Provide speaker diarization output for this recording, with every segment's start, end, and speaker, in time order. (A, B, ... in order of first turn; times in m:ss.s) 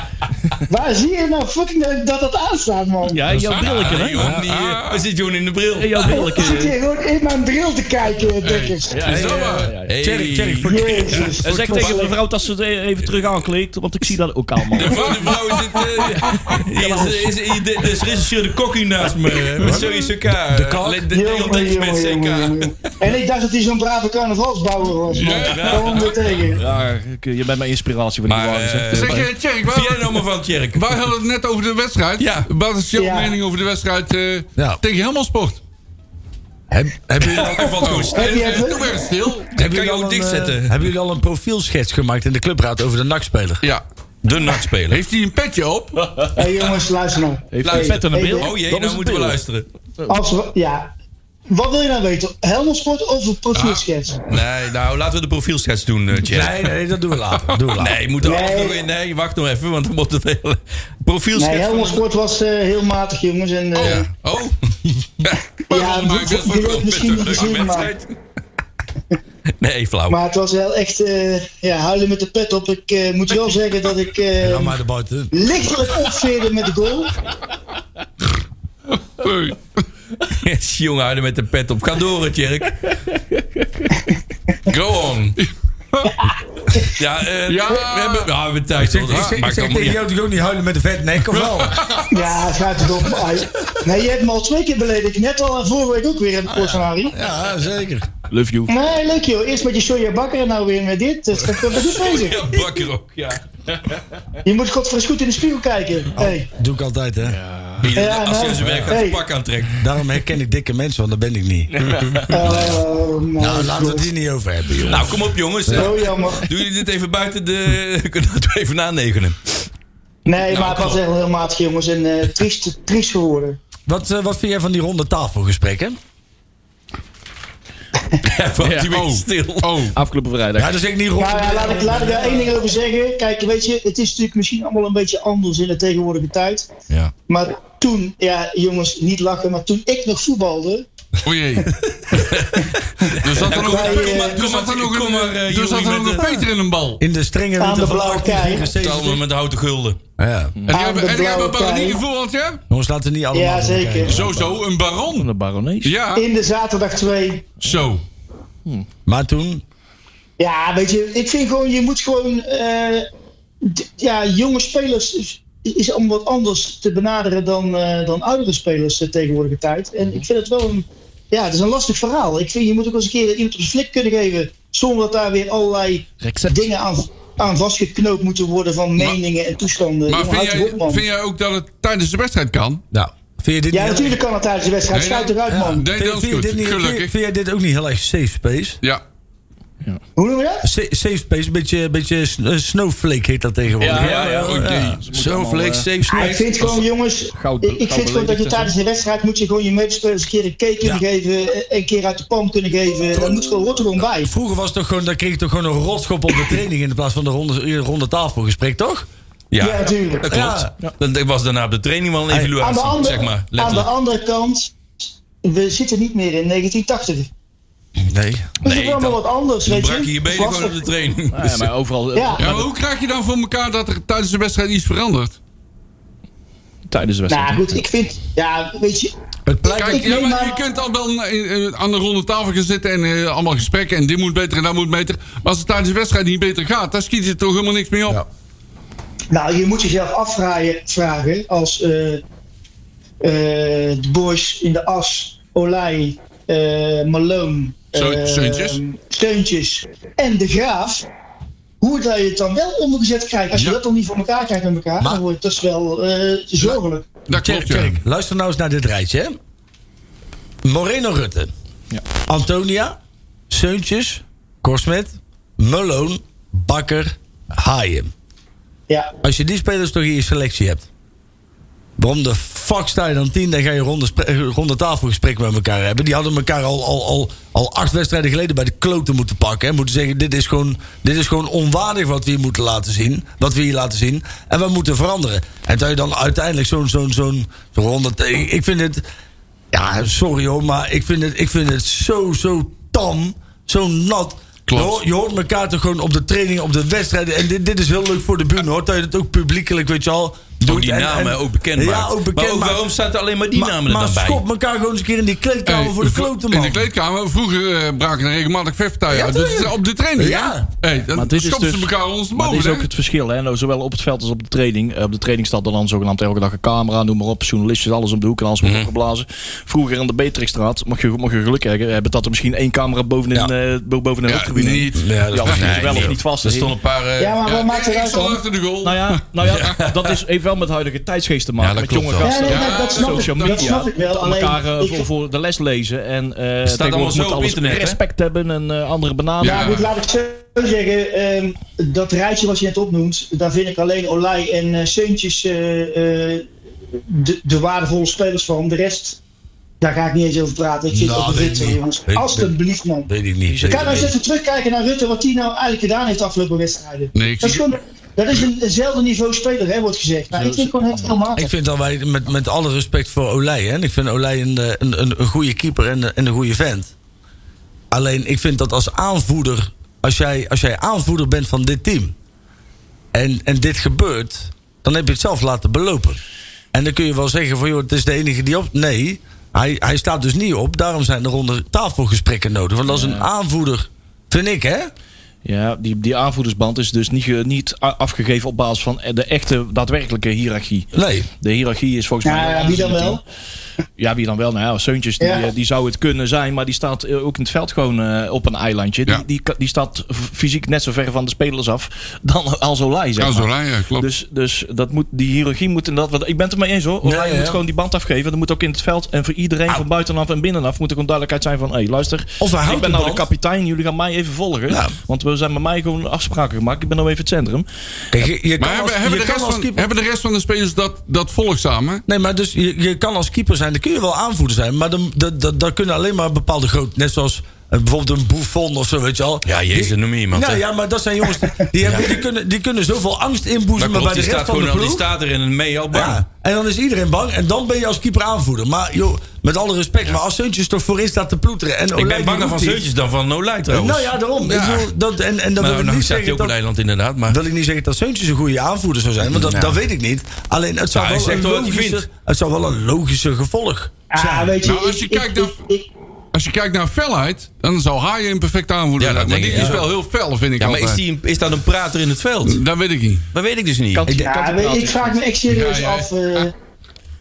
0:00.7-0:03.2 A
0:03.0-0:04.2 B
0:03.3-0:04.8 C
0:03.6-0:06.5 D
0:04.2-0:04.5 E
0:05.8-0:06.8 B
0:06.1-0:09.3 A
0:08.4-0:09.8 C
0:08.9-0:09.9 B
0:09.1-0:11.9 E
0:09.9-0:11.9 D
0:10.6-0:12.2 A
0:11.4-0:15.3 B
0:14.8-0:22.9 D
0:14.8-0:15.6 C
0:16.5-0:17.3 B
0:19.6-0:19.9 E
0:20.5-0:21.1 E
0:21.1-0:26.6 A
0:25.1-0:26.2 C
0:25.4-0:26.1 D
0:26.6-0:29.3 B
0:28.3-0:30.9 D
0:28.9-0:30.2 C
0:30.7-0:35.6 C
0:32.2-0:32.5 D
0:33.0-0:33.4 A
0:36.7-0:38.0 E
0:37.2-0:38.6 D
0:37.8-0:39.5 C
0:38.1-0:39.2 A
0:39.6-0:40.8 D
0:39.6-0:43.6 E
0:44.2-0:45.0 D
0:44.9-0:46.3 C
0:46.3-0:48.5 A
0:47.5-0:49.4 B
0:47.6-0:49.7 D
0:50.1-0:50.9 A
0:51.5-0:54.2 A
0:53.5-0:53.8 C
0:54.3-0:56.6 D
0:56.3-0:58.0 E
0:57.8-1:02.0 D
0:58.2-0:58.8 A
1:01.3-1:04.1 A
1:03.7-1:04.6 D
1:03.8-1:04.1 C
1:05.7-1:07.4 C
1:05.7-1:07.9 A
1:06.3-1:08.2 D
1:09.6-1:10.2 D
1:10.1-1:14.8 A
1:14.4-1:15.3 E
1:15.3-1:17.1 A
1:19.0-1:19.8 C
1:20.3-1:22.9 D
1:24.7-1:25.4 D
1:25.4-1:26.1 C
1:26.2-1:26.9 A
1:26.8-1:30.0 D
1:27.5-1:28.3 C
1:28.8-1:31.8 E
1:29.1-1:29.4 C
1:31.3-1:32.3 C
1:32.1-1:37.1 A
1:37.1-1:38.1 E
1:38.3-1:38.7 B
1:38.7-1:42.6 A
1:41.7-1:43.4 D
1:44.4-1:46.5 A
1:46.2-1:47.4 E
1:47.3-1:47.8 B
1:47.8-1:49.8 D
1:47.9-1:49.2 A
1:48.6-1:48.9 E
1:49.8-1:51.7 E
1:51.8-1:52.2 B
1:51.8-1:52.2 C
1:52.3-1:52.8 E
1:52.3-1:54.1 A
1:52.4-1:52.8 D
1:53.4-1:55.1 E
1:54.8-1:59.6 D
1:55.6-1:55.9 E
1:55.7-1:56.5 A
2:00.2-2:03.6 A
2:00.5-2:01.0 D
2:03.9-2:06.0 E
2:08.2-2:09.7 D
2:08.6-2:09.0 B
2:08.9-2:10.0 C
2:09.9-2:10.8 B
2:10.6-2:12.4 E
2:11.2-2:16.7 A
2:17.3-2:20.8 A
2:21.2-2:21.7 C
2:22.1-2:26.3 D
2:23.0-2:24.4 A
2:23.2-2:27.0 C
2:27.0-2:29.2 E
2:27.6-2:28.7 A
2:28.7-2:30.0 D
2:30.2-2:30.6 E
2:30.7-2:32.6 C
2:30.7-2:32.0 A
2:32.7-2:34.5 E
2:33.3-2:34.2 A
2:34.0-2:35.3 C
2:35.1-2:36.0 B
2:35.8-2:36.2 C
2:36.2-2:37.6 A
2:37.6-2:38.0 C
2:39.0-2:39.6 E
2:40.4-2:43.1 A
2:43.6-3:01.0 A
2:56.2-2:56.7 B
3:00.1-3:02.8 C
3:02.9-3:04.2 E
3:03.7-3:05.8 A
3:04.9-3:07.1 C
3:05.5-3:08.8 E
3:10.2-3:10.7 A
3:10.6-3:15.0 E
3:13.8-3:16.4 B
3:14.0-3:14.9 C
3:15.1-3:16.8 D
3:16.1-3:24.3 A
3:17.3-3:18.7 B
3:24.0-3:29.1 E
3:29.5-3:33.9 D
3:29.6-3:30.3 A
3:30.2-3:30.7 E
3:32.6-3:34.7 A
3:35.4-3:37.3 A
3:38.1-3:38.4 E
3:38.4-3:41.7 D
3:38.6-3:40.8 A
3:41.3-3:42.7 B
3:42.1-3:42.5 A
3:42.4-3:45.4 C
3:46.9-3:47.8 B
3:47.3-3:49.1 A
3:49.4-3:50.2 E
3:49.6-3:58.2 C
3:49.7-3:50.6 A
3:59.3-4:02.2 A
4:03.2-4:11.0 A
4:07.9-4:08.8 C
4:11.8-4:17.1 A
4:17.3-4:18.0 C
4:17.3-4:19.4 E
4:20.6-4:21.5 E
4:22.3-4:23.0 E
4:23.5-4:28.1 E
4:29.2-4:30.9 E
4:32.0-4:49.0 E
4:49.7-5:02.8 E
4:54.7-4:54.9 C
5:00.6-5:04.4 D
5:03.5-5:06.9 E
5:05.6-5:12.9 C
5:09.1-5:10.7 E
5:11.1-5:26.7 B
5:18.6-5:18.9 D
5:24.3-5:25.6 C
5:24.9-5:26.1 E
5:25.5-5:27.4 D
5:27.2-5:28.4 A
5:27.4-5:29.7 C
5:28.8-5:39.8 B
5:29.5-5:30.0 D
5:31.6-5:32.5 D
5:32.2-5:35.1 A
5:32.4-5:33.8 C
5:36.6-5:38.0 D
5:39.4-5:39.9 C
5:39.4-5:49.2 A
5:49.8-5:53.1 A
5:50.9-5:52.5 E
5:53.1-5:54.1 E
5:53.5-5:54.1 B
5:53.6-6:01.5 A
5:57.1-5:57.6 C
6:00.3-6:01.2 B
6:01.3-6:06.9 E
6:07.9-6:12.1 E
6:13.1-6:16.2 E
6:16.7-6:24.9 E
6:22.9-6:23.3 B
6:25.4-6:30.9 B
6:30.9-6:31.3 E
6:31.4-6:33.2 B
6:32.2-6:33.2 A
6:34.0-6:57.6 B
6:35.2-6:35.5 A
6:43.2-6:44.1 C
6:47.0-6:47.6 E
6:52.4-6:53.3 E
6:54.7-6:54.9 E
6:58.1-6:59.9 E
6:58.6-7:02.0 C
7:02.1-7:15.0 E
7:09.4-7:10.6 D
7:11.8-7:12.2 D
7:13.8-7:16.2 D
7:15.9-7:22.8 E
7:21.9-7:24.9 D
7:23.7-7:26.5 E
7:25.6-7:27.4 D
7:27.3-7:34.5 E
7:29.3-7:29.8 D
7:30.9-7:32.0 D
7:34.1-7:35.9 A
7:34.6-7:35.6 C
7:36.3-7:41.0 C
7:39.0-7:39.9 D
7:39.5-7:39.8 E
7:40.6-7:42.6 D
7:42.4-7:43.2 C
7:43.3-7:44.1 D
7:43.9-7:45.2 B
7:44.1-7:46.5 A
7:45.5-7:46.5 C